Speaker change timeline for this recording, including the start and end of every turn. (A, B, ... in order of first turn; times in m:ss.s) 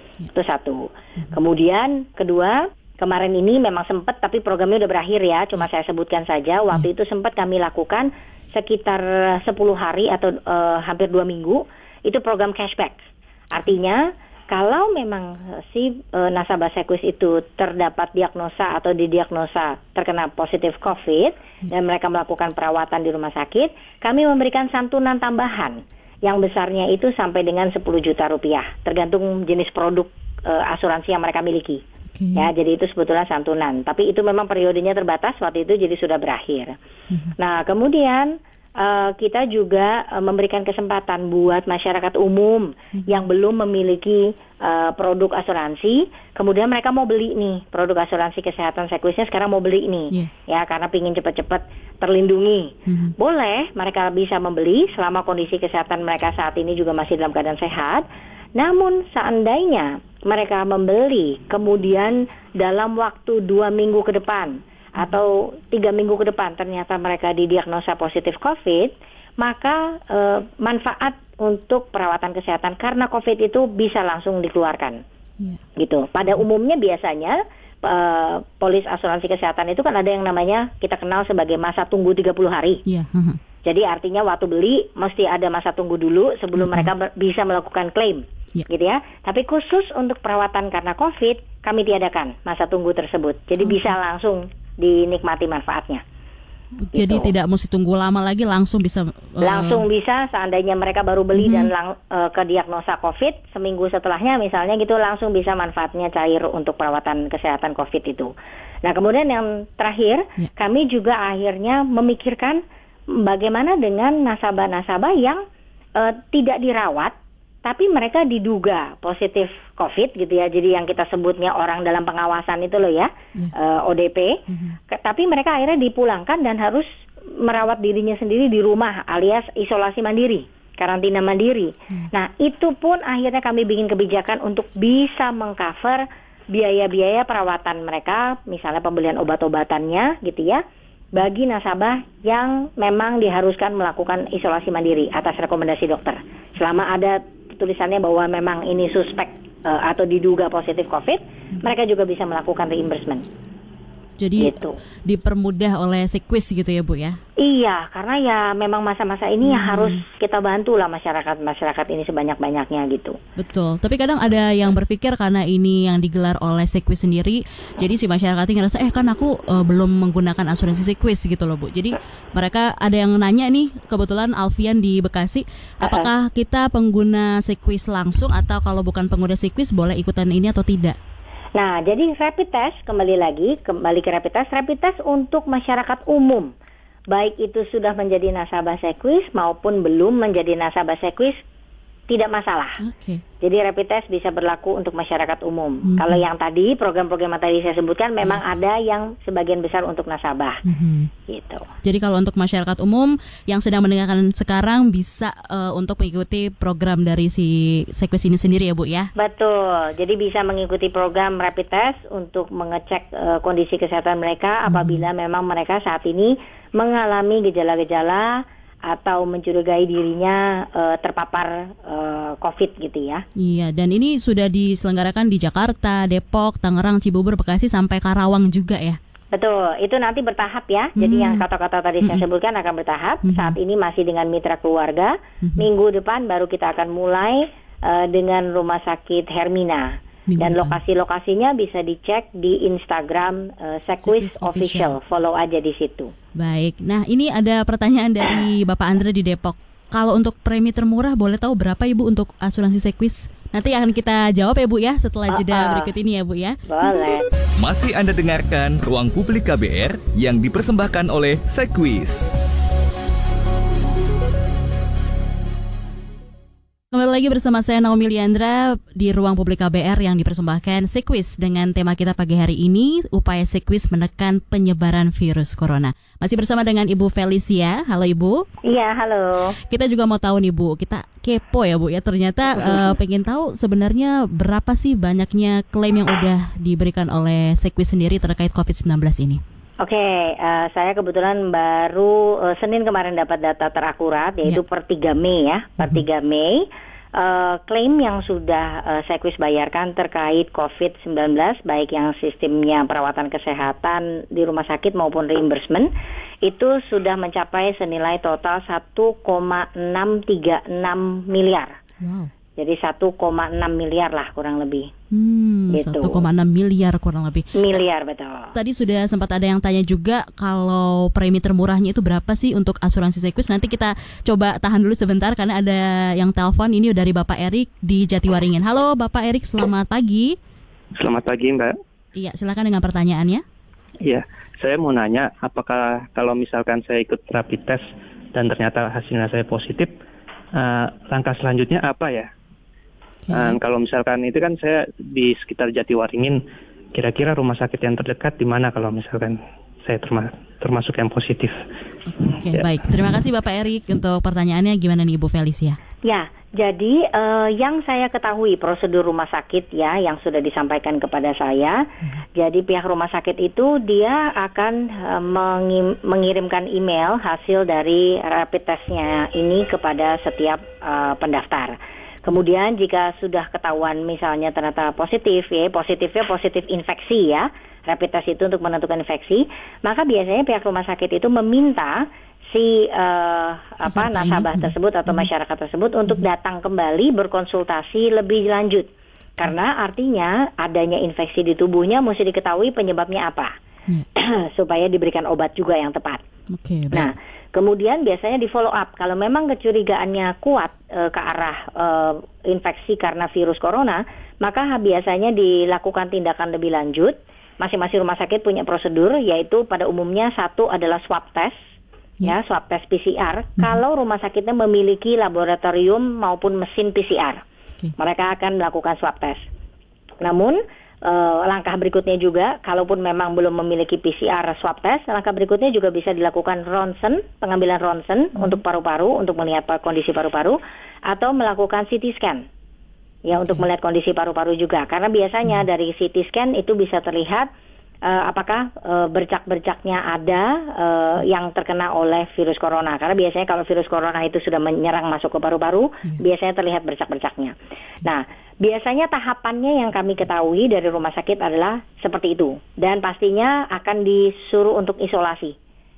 0:00.3-0:31.8 A
0:32.1-0:32.5 B
0:32.4-0:36.7 A
0:37.4-0:58.0 A
0:52.9-0:53.1 B
0:58.6-1:15.0 A
1:15.8-1:22.8 A
1:22.8-1:23.4 B
1:23.6-1:36.0 A
1:26.6-1:26.9 B
1:33.6-1:33.9 B
1:36.8-1:39.8 B
1:36.9-1:37.3 A
1:39.4-1:48.3 A
1:41.3-1:41.7 B
1:48.8-1:52.6 A
1:53.2-1:55.4 A
1:56.0-2:04.4 A
2:04.5-2:04.8 B
2:04.9-2:06.9 A
2:07.4-2:20.6 A
2:21.1-2:33.2 A
2:34.2-2:34.5 B
2:34.4-2:34.8 A
2:35.0-2:37.2 B
2:37.4-2:43.2 A
2:39.4-2:40.0 B
2:43.4-3:01.0 B
2:55.8-2:56.1 A
3:01.6-3:06.5 A
3:07.1-3:11.4 A
3:12.1-3:12.8 A
3:12.8-3:13.2 B
3:13.4-3:20.6 A
3:15.9-3:16.2 B
3:18.2-3:18.5 B
3:20.6-3:21.1 B
3:21.3-3:21.6 A
3:21.8-3:29.1 B
3:29.2-3:43.2 A
3:34.7-3:35.0 B
3:43.4-3:49.0 B
3:49.3-4:06.1 A
3:51.0-3:51.4 B
3:53.2-3:53.6 B
3:55.4-3:55.7 B
4:00.3-4:00.8 B
4:04.0-4:04.9 B
4:06.4-4:16.6 B
4:15.3-4:15.9 A
4:16.7-4:17.2 A
4:17.6-4:22.4 C
4:26.9-4:38.4 B
4:38.6-4:39.6 A
4:39.7-4:49.4 B
4:42.6-4:42.9 A
4:49.8-5:05.9 A
5:06.4-5:11.7 A
5:12.0-5:12.3 B
5:12.6-5:14.9 A
5:15.1-5:17.6 B
5:15.7-5:16.2 A
5:17.5-5:18.5 A
5:18.5-5:30.4 B
5:31.0-5:31.8 D
5:32.1-5:33.4 B
5:34.0-5:37.8 D
5:38.3-5:39.9 D
5:40.6-5:42.3 D
5:43.2-5:43.6 B
5:43.3-5:46.4 D
5:46.9-5:51.5 D
5:52.1-5:55.8 B
5:52.4-5:52.8 D
5:56.0-6:01.8 A
6:02.4-6:33.5 A
6:23.9-6:25.3 B
6:34.2-6:36.2 A
6:36.5-6:37.1 B
6:36.9-6:51.6 A
6:52.2-6:57.4 A
6:58.0-6:59.4 A
7:00.2-7:12.4 A
7:13.2-7:17.5 A
7:18.0-7:35.5 A